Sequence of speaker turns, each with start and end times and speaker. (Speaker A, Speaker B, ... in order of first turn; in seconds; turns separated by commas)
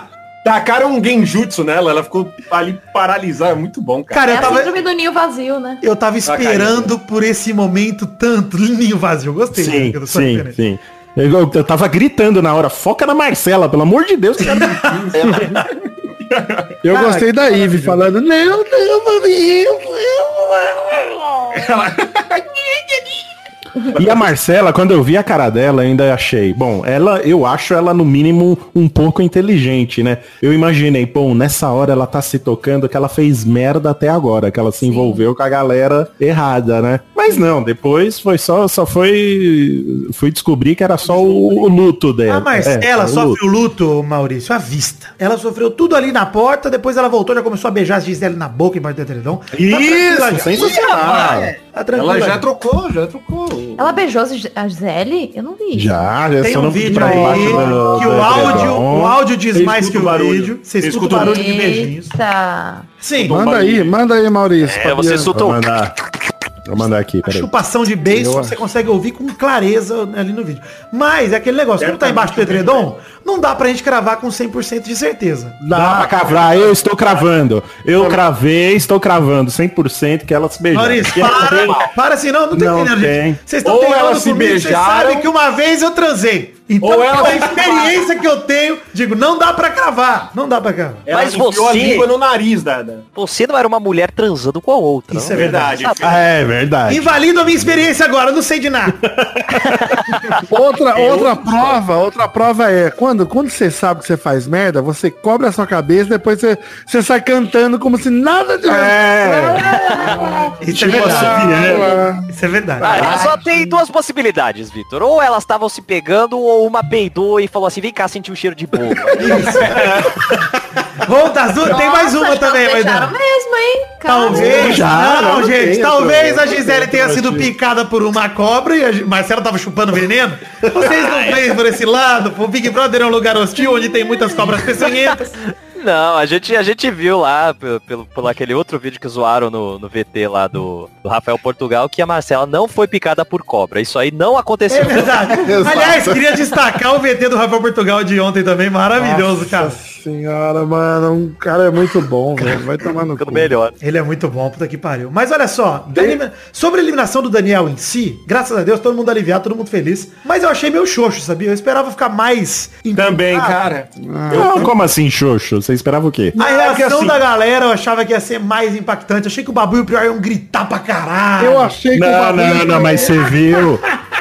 Speaker A: 0.4-4.7, Speaker B: 4.1-4.7, Speaker C: 4.2-5.8, Speaker B: 5.8-10.6, Speaker A: 6.2-6.9, Speaker D: 9.5-14.8, Speaker B: 14.4-15.3, Speaker A: 14.9-16.7, Speaker E: 16.8-21.7, Speaker B: 16.9-17.9, Speaker A: 21.5-23.2, Speaker A: 23.9-24.3, Speaker D: 23.9-43.4, Speaker C: 34.8-35.2, Speaker A: 41.0-41.6, Speaker B: 42.3-52.4, Speaker D: 49.5-51.5, Speaker A: 50.6-54.0, Speaker C: 53.8-56.1, Speaker D: 55.7-59.2, Speaker B: 56.4-62.1, Speaker E: 57.0-57.5, Speaker A: 57.3-58.7, Speaker A: 59.5-61.5, Speaker C: 61.1-62.9, Speaker B: 63.0-63.4, Speaker A: 63.1-63.9, Speaker E: 63.3-65.4, Speaker F: 64.6-65.6, Speaker D: 65.3-66.0, Speaker D: 66.6-67.5, Speaker B: 67.2-75.6, Speaker E: 68.0-68.6, Speaker A: 71.8-72.9, Speaker E: 75.6-76.2, Speaker D: 75.6-81.9, Speaker A: 76.2-77.2, Speaker B: 80.7-91.0, Speaker A: 81.2-81.9, Speaker D: 82.5-83.4, Speaker A: 83.6-85.3, Speaker A: 86.8-88.0, Speaker A: 91.1-93.1, Speaker F: 91.1-92.1, Speaker F: 93.1-96.0, Speaker B: 95.1-96.0, Speaker A: 95.3-96.3, Speaker D: 96.0-97.9, Speaker B: 96.9-99.0, Speaker D: 99.0-99.8, Speaker E: 100.5-112.3, Speaker A: 101.0-101.8, Speaker D: 108.7-109.7, Speaker F: 109.9-110.2, Speaker B: 110.6-111.6, Speaker D: 110.7-111.9, Speaker B: 112.3-113.3, Speaker F: 112.8-119.6, Speaker A: 112.9-113.3, Speaker B: 119.2-119.8, Speaker A: 119.3-120.1, Speaker B: 121.0-123.1, Speaker C: 121.7-124.8, Speaker B: 124.0-135.4, Speaker D: 124.3-127.5, Speaker F: 130.8-131.4, Speaker F: 135.8-145.3, Speaker B: 144.7-149.8, Speaker E: 145.3-146.4, Speaker E: 148.9-153.5, Speaker F: 153.1-153.7, Speaker B: 153.8-163.6, Speaker A: 162.9-164.7, Speaker E: 164.0-164.7, Speaker D: 164.3-166.3, Speaker A: 166.3-167.2, Speaker B: 166.3-171.8, Speaker E: 171.4-173.2, Speaker D: 171.9-173.8, Speaker B: 172.5-173.1